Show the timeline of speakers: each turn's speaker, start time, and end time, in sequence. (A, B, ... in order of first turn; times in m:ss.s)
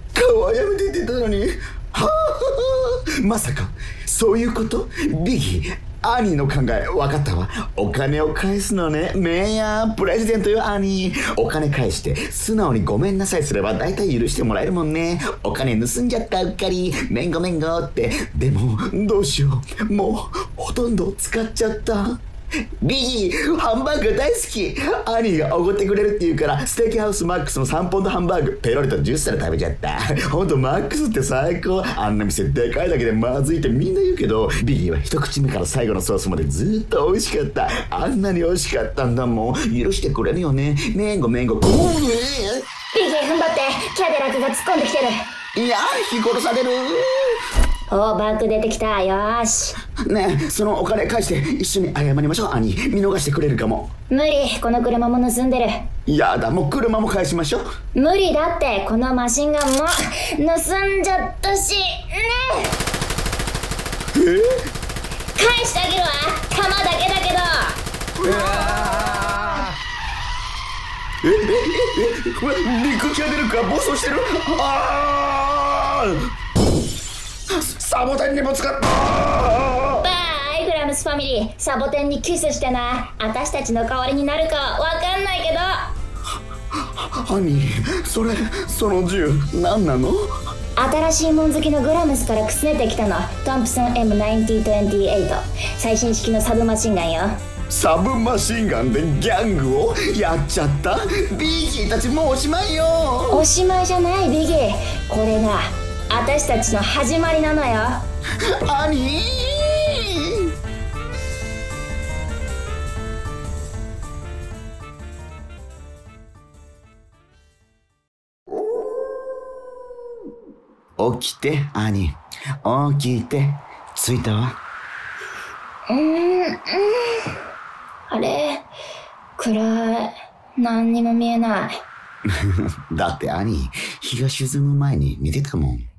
0:00.1-0:22.2 A
0:22.8-0:42.6 A
0:42.9-0:45.3 B
0:45.6-0:47.4 A
0:47.9-0:49.8 B
0:50.0-0:53.9 A
0:54.1-0:55.8 B
0:56.1-0:57.6 A
0:57.9-1:02.8 B
1:04.1-1:04.7 A
1:05.4-1:07.8 B
1:08.2-1:09.4 A
1:11.2-1:16.3 A
1:17.5-1:20.0 A
1:20.0-1:25.9 B
1:27.0-1:30.3 A
1:30.8-1:37.3 B
1:37.7-1:43.5 A
1:43.3-1:48.0 B
1:48.6-1:50.5 A
2:01.0-2:04.5 A
2:05.9-2:07.3 B
2:08.1-2:08.7 B
2:09.4-2:11.8 B
2:12.3-2:15.8 A